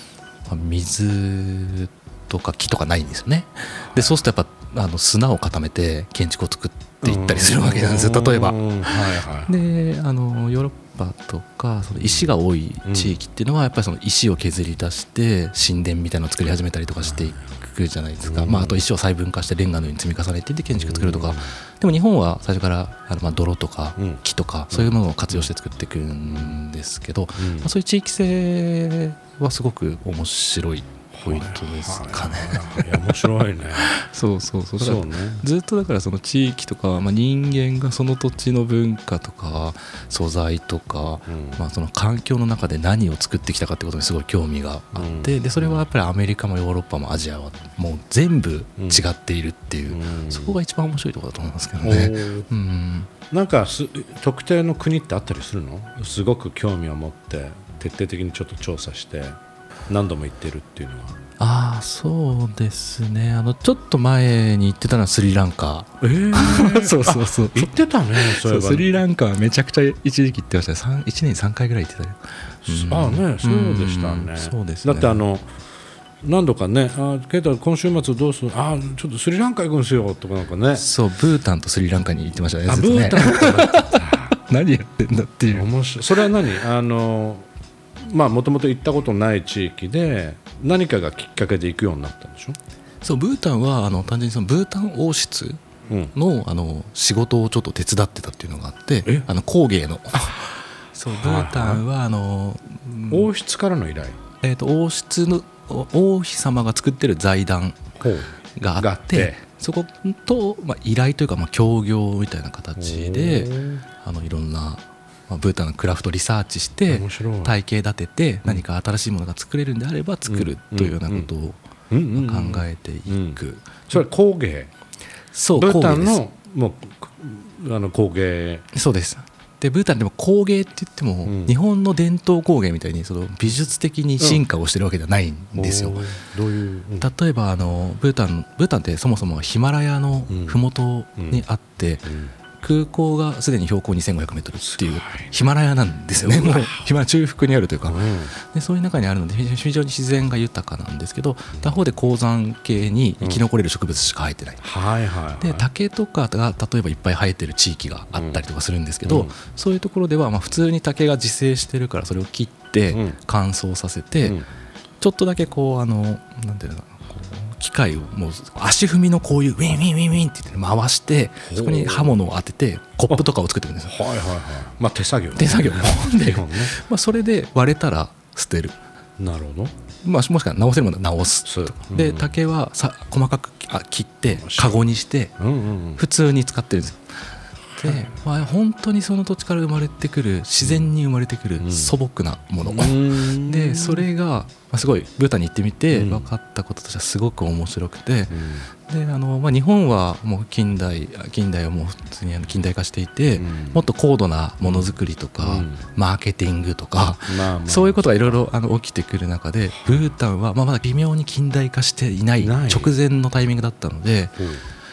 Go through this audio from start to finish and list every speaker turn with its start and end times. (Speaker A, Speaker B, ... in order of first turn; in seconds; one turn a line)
Speaker A: 0.5-53.1
Speaker B: 7.0-9.5
Speaker B: 12.0-12.3
Speaker B: 12.8-13.2
Speaker B: 17.0-17.5
Speaker B: 18.2-18.8
Speaker B: 20.8-21.5
Speaker B: 24.0-25.5
Speaker B: 26.3-26.5
Speaker B: 27.4-27.7
Speaker B: 31.1-33.9
Speaker B: 34.8-35.4
Speaker B: 41.3-41.6
Speaker B: 44.9-45.8
Speaker B: 48.8-49.0
Speaker B: 49.9-50.5
Speaker B: 51.8-52.5
Speaker B: 53.3-59.4
Speaker B: 59.9-61.2
Speaker A: 61.4-75.2
Speaker B: 66.0-69.0
Speaker B: 72.7-75.5
Speaker B: 76.2-80.9
Speaker A: 80.7-85.7
Speaker B: 82.7-84.3
Speaker B: 85.5-87.5
Speaker B: 88.0-92.6
Speaker A: 93.0-103.3
Speaker B: 101.1-101.8
Speaker B: 103.1-104.2
Speaker A: 104.4-107.8
Speaker B: 108.0-109.4
Speaker A: 108.6-121.6
Speaker B: 112.8-113.8
Speaker B: 116.9-117.5
Speaker B: 120.3-121.3
Speaker B: 121.9-124.7
Speaker A: 122.1-124.0
Speaker A: 125.3-126.2
Speaker B: 125.5-128.6
Speaker A: 128.7-136.0
Speaker B: 131.2-131.5
Speaker B: 135.5-137.1
Speaker A: 137.0-154.6
Speaker B: 140.3-140.6
Speaker B: 141.2-141.4
Speaker B: 142.1-142.3
Speaker B: 144.6-145.3
Speaker B: 146.2-146.9
Speaker B: 147.8-148.3
Speaker B: 154.6-155.7
Speaker A: 155.4-164.4
Speaker B: 158.1-158.4
Speaker B: 159.0-159.3
Speaker B: 162.9-163.2
Speaker A: 165.0-173.9
Speaker B: 171.4-172.1
Speaker B: 173.8-176.7
Speaker A: 175.3-178.8
Speaker B: 179.2-179.7
Speaker A: 180.0-185.3
Speaker B: 181.4-182.3
Speaker B: 184.3-184.8
Speaker B: 185.4-186.0
Speaker A: 186.0-187.1
Speaker A: 187.8-214.4
Speaker B: 187.8-188.1
Speaker B: 190.6-190.9
Speaker B: 191.6-191.9
Speaker B: 192.6-194.1
Speaker B: 195.9-196.3
Speaker B: 198.3-198.7
Speaker B: 203.3-203.8
Speaker B: 204.6-205.8
Speaker B: 207.2-208.4
Speaker B: 209.7-210.1
Speaker B: 212.4-212.9
Speaker B: 214.4-214.6